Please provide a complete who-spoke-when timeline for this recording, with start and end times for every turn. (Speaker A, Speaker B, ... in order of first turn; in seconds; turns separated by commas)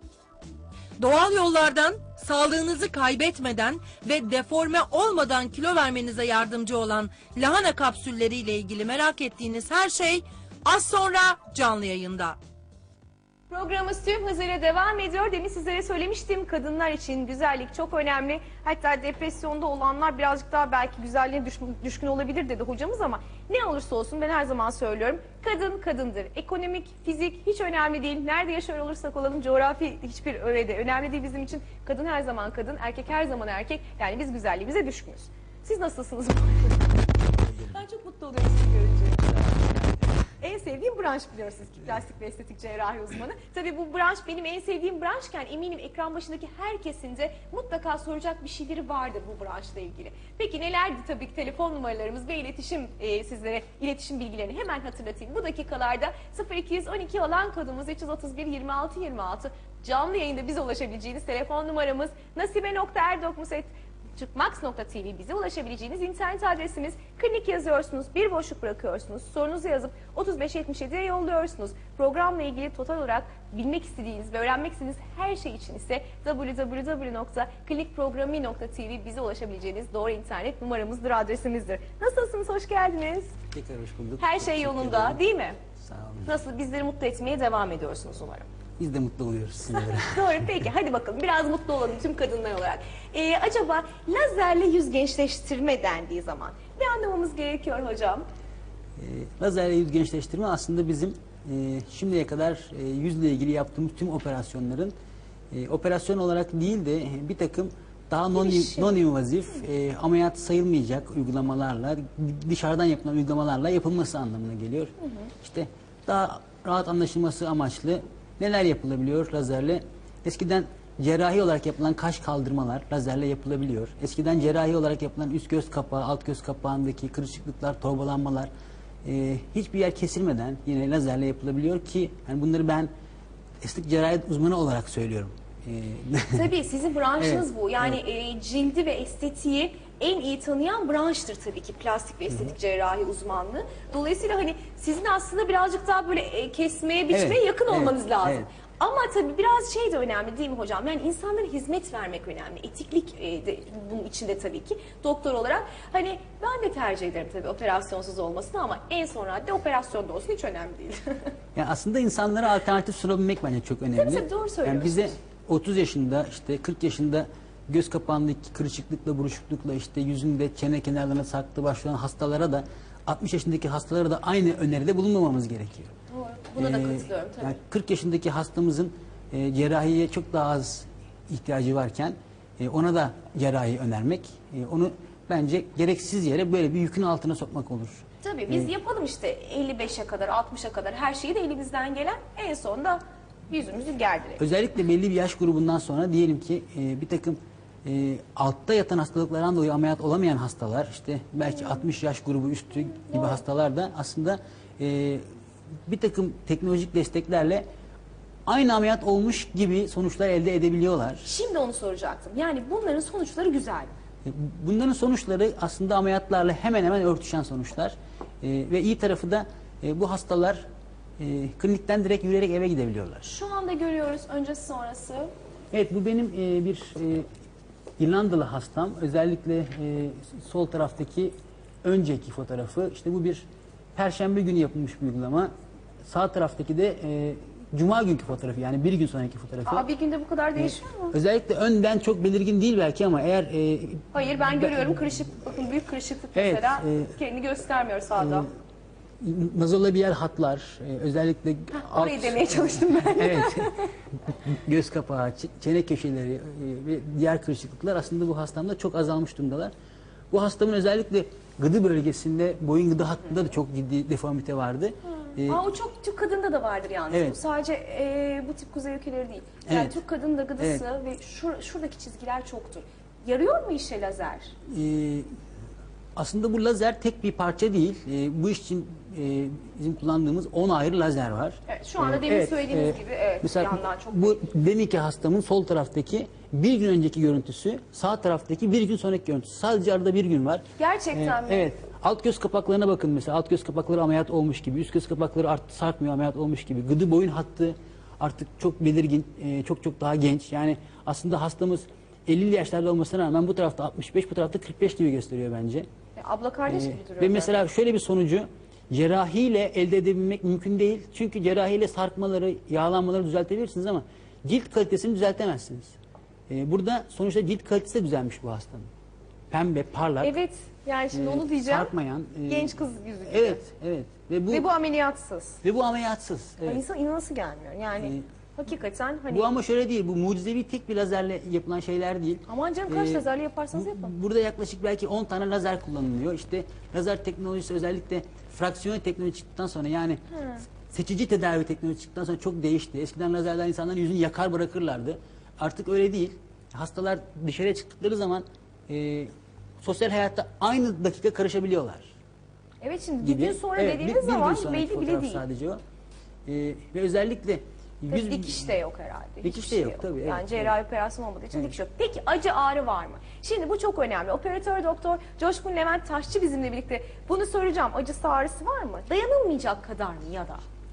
Speaker A: 1.0-12.4, Speaker B: 13.5-36.9, Speaker B: 37.5-39.4, Speaker B: 40.4-83.3, Speaker C: 83.5-85.2, Speaker B: 84.2-85.6, Speaker C: 85.8-86.3, Speaker B: 86.2-88.5, Speaker C: 88.8-90.6, Speaker B: 89.7-98.2, Speaker C: 99.0-104.9, Speaker C: 105.5-128.5, Speaker B: 108.4-109.0, Speaker B: 115.0-115.3, Speaker C: 129.0-132.9, Speaker C: 133.6-136.5, Speaker B: 136.3-161.3, Speaker C: 137.2-138.0, Speaker C: 147.1-148.5, Speaker C: 161.6-175.9, Speaker B: 163.9-165.1, Speaker B: 176.1-177.6, Speaker C: 176.6-188.7, Speaker B: 188.2-194.4, Speaker C: 194.4-205.2, Speaker B: 202.9-203.4, Speaker C: 205.9-207.7, Speaker C: 208.5-211.3, Speaker B: 211.2-213.9, Speaker C: 214.2-220.7, Speaker C: 221.2-223.3, Speaker B: 223.2-225.3, Speaker C: 225.7-227.3, Speaker C: 228.0-231.3, Speaker C: 231.8-235.5, Speaker C: 236.1-239.9, Speaker B: 239.7-241.2, Speaker C: 240.6-244.1, Speaker B: 244.1-248.5, Speaker C: 246.3-247.1, Speaker C: 249.2-253.8, Speaker B: 251.8-253.9, Speaker C: 254.3-259.7, Speaker C: 260.3-265.7, Speaker B: 265.4-274.5, Speaker C: 267.1-267.4, Speaker C: 269.7-269.9, Speaker C: 270.6-270.9, Speaker C: 274.7-275.3, Speaker C: 276.2-305.9, Speaker B: 281.7-284.5, Speaker B: 290.8-291.7, Speaker B: 306.2-307.6, Speaker C: 306.7-316.0, Speaker C: 316.5-318.9, Speaker C: 319.5-320.4, Speaker B: 320.2-321.9, Speaker C: 321.1-324.7, Speaker B: 322.5-323.6, Speaker B: 324.5-325.6, Speaker C: 325.6-326.8, Speaker B: 326.6-329.5, Speaker C: 329.3-340.2, Speaker B: 332.5-334.1, Speaker B: 340.3-340.6, Speaker C: 340.8-352.1, Speaker B: 352.8-355.4, Speaker C: 353.2-355.8, Speaker C: 356.5-358.8, Speaker B: 358.1-370.6, Speaker C: 359.4-360.8